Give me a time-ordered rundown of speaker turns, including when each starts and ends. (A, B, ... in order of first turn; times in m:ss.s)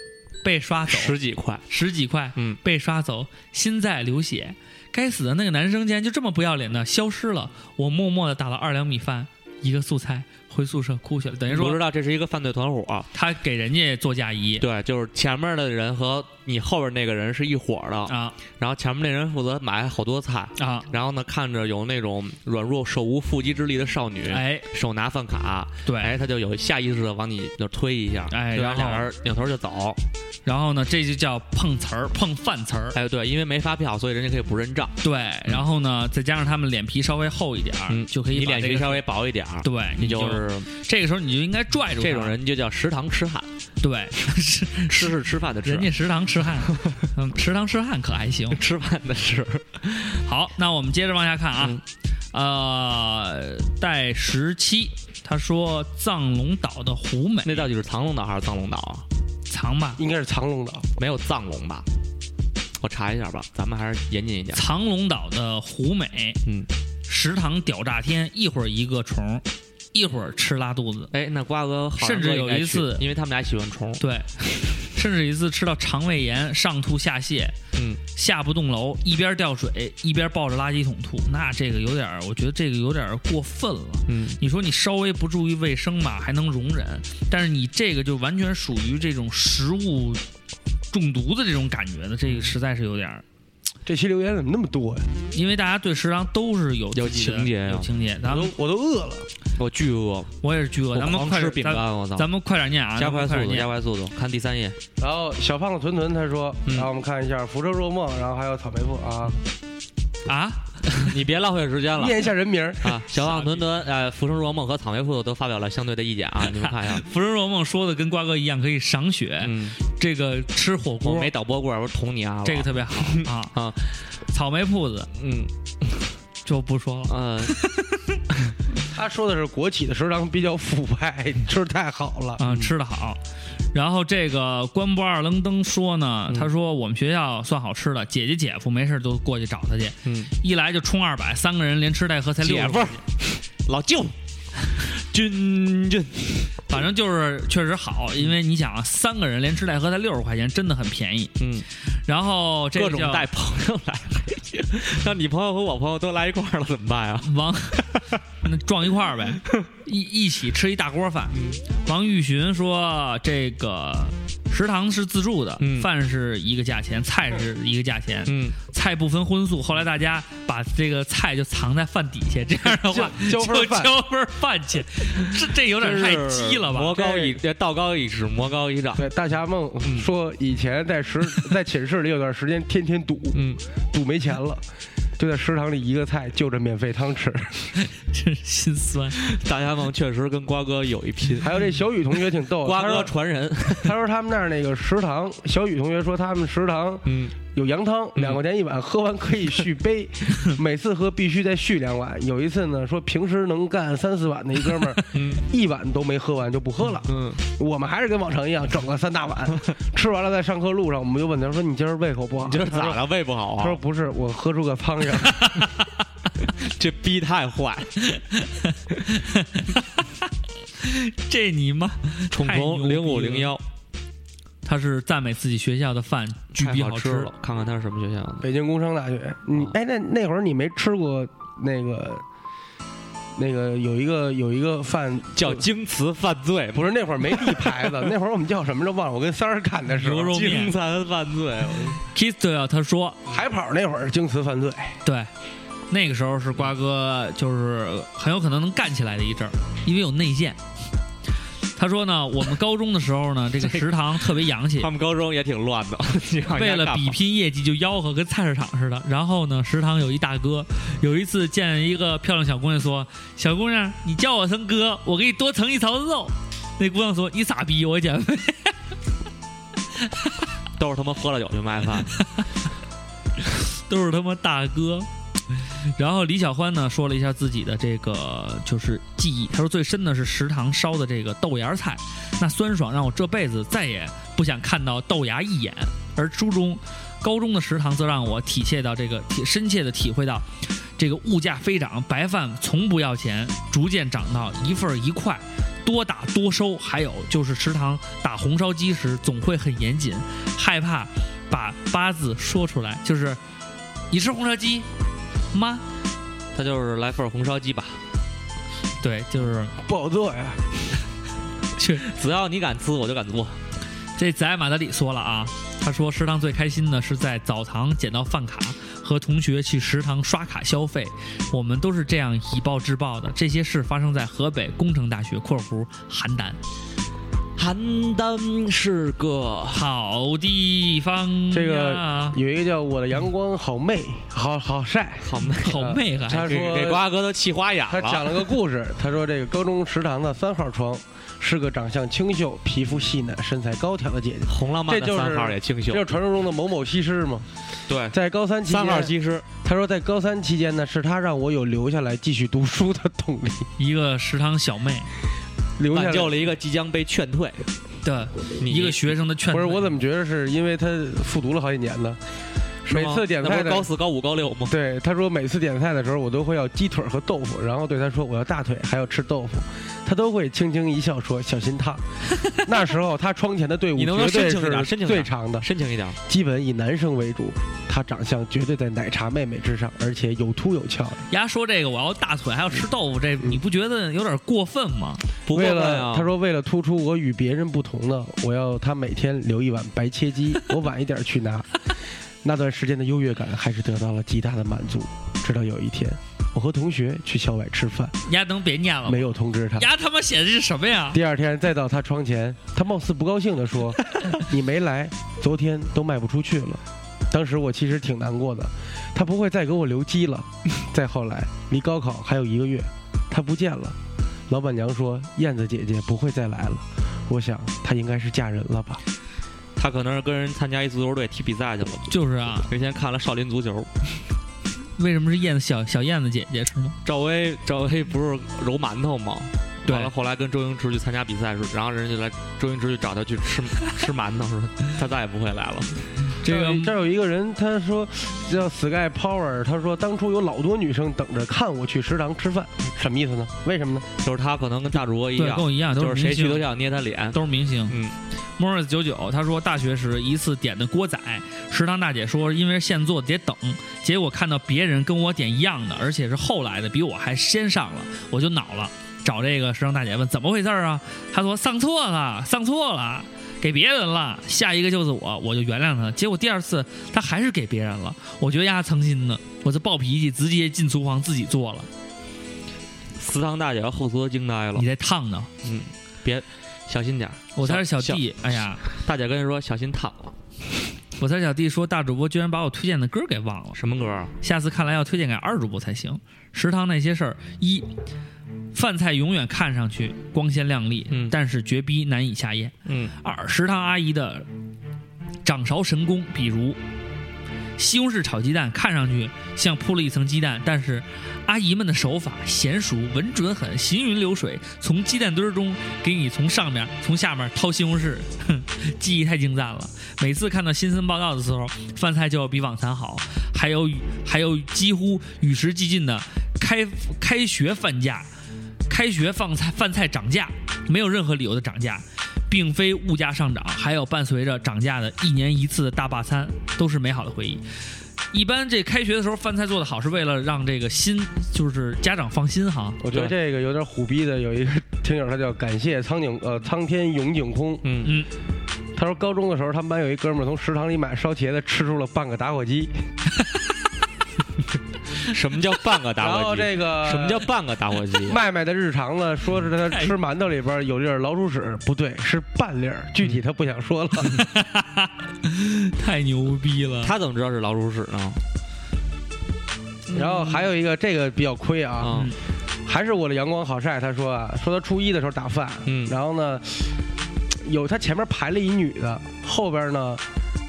0:00.4-0:01.2 A
0:00.9-0:01.6 B
0:01.7-0:11.8 A
0:11.5-0:13.1 B
0:13.1-0:14.6 A
0:14.6-0:30.0 B
0:18.1-0:18.4 A
0:20.6-0:20.9 A
0:24.3-0:24.7 A
0:25.8-0:26.1 A
0:28.3-0:29.1 A
0:30.4-0:33.0 A
0:32.9-0:35.6 B
0:35.0-0:39.0 A
0:37.9-0:40.7 B
0:39.6-0:42.4 A
0:42.0-0:43.5 B
0:43.8-0:48.6 A
0:44.9-0:45.9 B
0:46.6-0:47.0 B
0:48.5-0:50.2 B
0:50.2-0:51.8 A
0:52.3-0:57.7 A
0:57.4-0:59.0 B
0:59.5-1:00.0 A
1:00.0-1:00.9 C
1:01.0-1:01.8 B
1:02.8-1:04.6 B
1:04.5-1:06.4 A
1:07.1-1:11.1 A
1:11.1-1:14.0 B
1:12.0-1:13.0 A
1:14.0-1:17.6 A
1:17.7-1:18.0 B
1:18.1-1:30.2 A
1:24.1-1:24.4 B
1:30.9-1:33.2 A
1:33.8-1:35.1 C
1:35.3-1:38.5 A
1:36.9-1:37.9 B
1:38.3-1:39.3 C
1:39.6-1:40.3 B
1:40.4-1:43.7 A
1:40.9-1:42.3 B
1:43.0-1:44.8 B
1:45.0-1:49.4 C
1:50.2-1:51.1 A
1:50.9-1:52.3 B
1:52.0-1:53.0 C
1:52.8-1:57.0 B
1:53.1-1:53.6 A
1:56.5-2:01.3 A
1:59.4-1:59.8 B
2:01.0-2:03.9 B
2:02.4-2:03.5 A
2:04.3-2:05.1 A
2:05.2-2:06.1 B
2:06.4-2:08.0 A
2:07.1-2:07.6 B
2:08.9-2:12.4 C
2:12.4-2:13.2 A
2:13.7-2:23.0 A
2:20.0-2:20.3 B
2:22.4-2:24.1 B
2:24.7-2:26.5 B
2:26.7-2:31.3 A
2:31.4-2:31.6 B
2:31.9-2:33.3 A
2:32.8-2:38.1 B
2:37.2-2:57.0 A
2:41.3-2:41.6 B
2:45.6-2:45.9 B
2:48.2-2:48.6 B
2:52.8-2:54.0 C
2:55.7-2:59.1 B
2:57.0-2:57.4 C
2:58.9-3:04.6 C
3:03.3-3:03.6 B
3:05.2-3:07.7 C
3:07.8-3:09.2 A
3:09.2-3:11.6 B
3:11.4-3:13.1 C
3:12.5-3:14.0 B
3:13.6-3:33.0 C
3:17.0-3:17.3 B
3:25.1-3:25.4 B
3:27.1-3:27.4 B
3:32.4-3:33.8 B
3:33.6-3:35.5 C
3:35.4-3:35.6 A
3:36.5-3:38.0 B
3:38.0-3:40.1 A
3:40.8-3:43.5 A
3:42.3-3:43.6 B
3:44.6-3:47.3 A
3:46.6-3:48.5 B
3:48.4-3:52.2 C
3:53.4-3:55.6 C
3:55.3-3:58.1 B
3:56.7-4:00.4 C
3:59.9-4:00.7 A
4:00.3-4:02.0 B
4:02.1-4:03.2 A
4:03.3-4:05.0 C
4:05.0-4:05.3 A
4:05.9-4:10.6 A
4:11.8-4:14.9 A
4:14.8-4:17.2 B
4:16.5-4:28.7 A
4:30.8-4:32.1 B
4:33.9-5:03.4 A
5:04.1-5:04.9 A
5:05.5-5:05.8 A
5:06.5-5:08.0 B
5:09.0-5:09.7 A
5:09.8-5:10.7 C
5:11.8-5:12.0 A
5:12.0-5:13.6 B
5:14.2-5:26.6 A
5:27.6-5:29.8 B
5:29.7-5:32.4 A
5:31.5-5:37.1 C
5:35.2-5:38.5 B
5:35.6-5:36.7 A
5:37.9-5:47.4 C
5:44.5-5:46.1 B
5:47.9-5:49.5 B
5:48.1-5:53.7 C
5:53.8-5:55.1 A
5:55.8-5:56.4 C
5:55.9-5:57.6 B
5:58.0-5:59.9 A
5:58.6-5:59.1 B
5:59.5-6:02.2 C
6:02.8-6:03.9 C
6:02.9-6:04.7 B
6:04.7-6:15.6 C
6:14.0-6:16.2 B
6:16.3-6:21.2 C
6:21.3-6:25.2 A
6:25.4-6:26.3 B
6:25.5-6:31.7 C
6:32.4-6:38.2 C
6:38.2-6:41.2 A
6:39.0-6:39.9 C
6:41.1-6:54.0 C
6:54.5-6:59.0 C
6:59.8-7:04.2 B
7:02.1-7:02.7 A
7:05.0-7:07.0 A
7:07.0-7:16.1 B
7:09.8-7:10.1 A
7:16.4-7:16.9 A
7:16.4-7:24.0 C
7:24.2-7:27.4 B
7:25.4-7:26.7 A
7:27.3-7:28.0 A
7:27.9-7:28.2 B
7:28.6-7:51.9 A
7:53.2-7:54.8 B
7:54.8-7:55.5 A
7:55.6-7:58.2 B
7:57.6-7:58.8 A
7:58.8-8:00.3 B
8:01.2-8:03.8 A
8:03.8-8:04.3 B
8:04.4-8:07.9 A
8:08.7-8:14.5 A
8:12.8-8:13.1 B
8:15.4-8:16.8 A
8:17.8-8:38.3 A
8:38.9-8:47.6 A
8:48.3-8:53.0 A
8:53.0-8:57.9 C
8:57.8-8:58.2 B
8:58.9-9:02.9 C
9:05.2-9:08.4 B
9:06.2-9:07.5 C
9:08.2-9:14.4 C
9:09.8-9:10.1 A
9:14.2-9:17.1 A
9:17.0-9:18.4 B
9:20.1-9:22.2 C
9:22.0-9:22.3 B
9:22.8-9:26.9 C
9:25.8-9:26.1 B
9:27.5-9:30.2 C